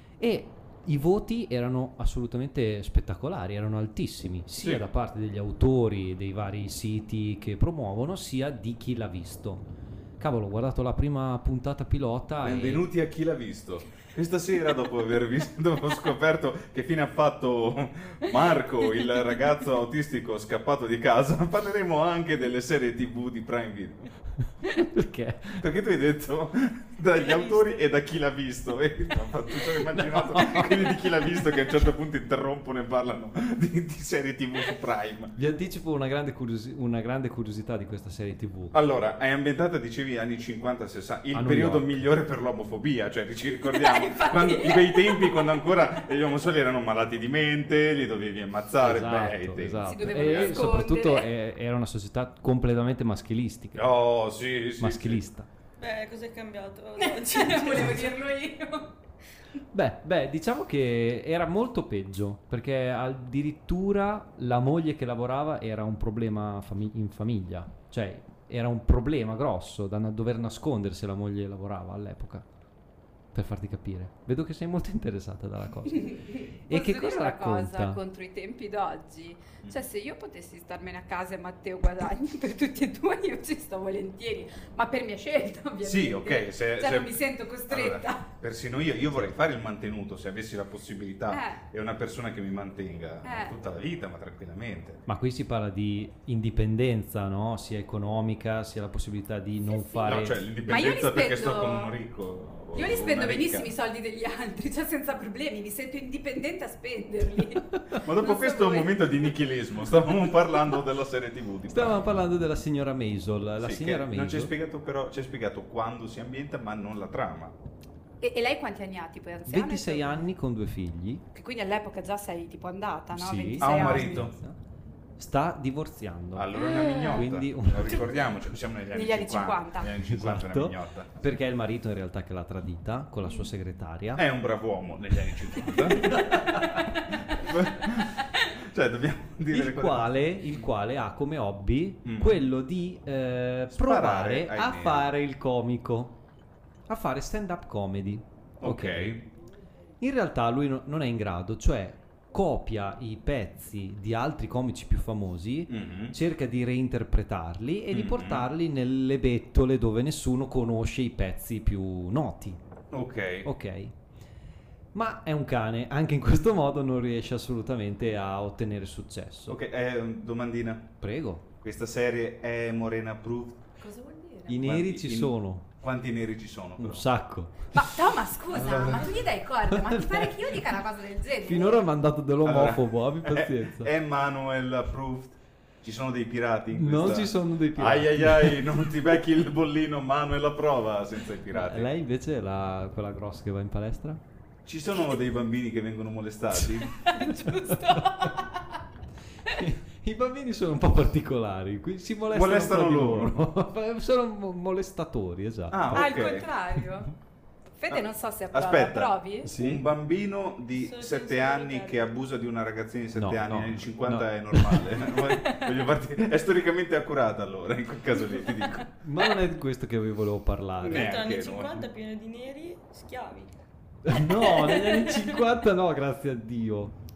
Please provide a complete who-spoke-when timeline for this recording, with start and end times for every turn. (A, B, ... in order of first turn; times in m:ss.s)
0:00.2-0:12.8 A
0:04.6-0:04.8 B
0:12.4-0:24.1 B
0:24.6-0:25.6 A
0:25.6-0:35.4 B
0:29.8-0:31.6 A
0:35.3-0:38.7 A
0:38.7-0:50.6 B
0:41.3-0:41.9 A
0:43.6-0:45.4 C
0:48.8-0:53.9 A
0:49.8-0:51.3 C
0:53.7-0:55.2 B
0:54.8-0:55.5 A
0:55.8-0:58.2 D
0:57.0-0:58.9 C
0:59.7-1:12.5 A
1:13.3-1:18.0 A
1:16.7-1:28.2 C
1:25.8-1:35.0 B
1:31.3-1:31.6 C
1:33.2-1:33.5 C
1:35.1-1:40.4 A
1:39.8-1:42.0 C
1:40.0-1:43.7 B
1:42.7-1:49.3 C
1:48.0-1:52.2 B
1:51.7-1:54.5 A
1:53.6-1:57.5 B
1:58.2-2:00.2 C
1:59.4-2:01.2 A
2:01.3-2:04.3 C
2:03.1-2:04.6 A
2:03.6-2:04.3 B
2:05.2-2:06.5 A
2:06.3-2:11.1 B
2:06.6-2:07.2 C
2:07.1-2:08.3 A
2:08.9-2:10.0 C
2:10.0-2:14.2 A
2:14.2-2:16.3 B
2:15.6-2:16.9 A
2:17.3-2:20.1 B
2:19.5-2:26.2 A
2:22.0-2:22.4 B
2:23.7-2:25.1 B
2:26.9-2:29.2 A
2:28.6-2:29.2 B
2:30.0-2:42.6 A
2:35.7-2:36.2 B
2:37.9-2:38.5 B
2:42.9-2:43.5 B
2:43.4-2:43.9 A
2:44.9-2:49.6 A
2:49.5-2:50.9 B
2:51.0-2:51.4 A
2:51.6-2:53.6 B
2:53.8-2:54.6 C
2:54.5-2:55.7 A
2:54.6-2:57.0 B
2:56.8-2:57.7 A
2:57.7-3:01.8 C
2:58.5-2:59.2 B
2:59.8-3:00.3 A
3:01.4-3:03.9 A
3:02.4-3:11.9 B
3:06.7-3:08.8 A
3:11.5-3:14.2 A
3:14.6-3:17.0 B
3:16.6-3:18.4 A
3:17.0-3:18.8 C
3:19.5-3:26.8 A
3:22.3-3:23.5 B
3:25.7-3:26.5 B
3:25.9-3:27.1 C
3:27.8-3:29.5 C
3:27.9-3:38.9 B
3:29.4-3:29.8 A
3:30.8-3:32.1 D
3:33.1-3:34.9 A
3:35.2-3:35.8 C
3:39.0-3:41.2 A
3:40.8-3:41.8 B
3:40.8-3:43.6 D
3:44.0-3:46.9 A
3:44.2-3:45.4 D
3:44.5-3:44.8 C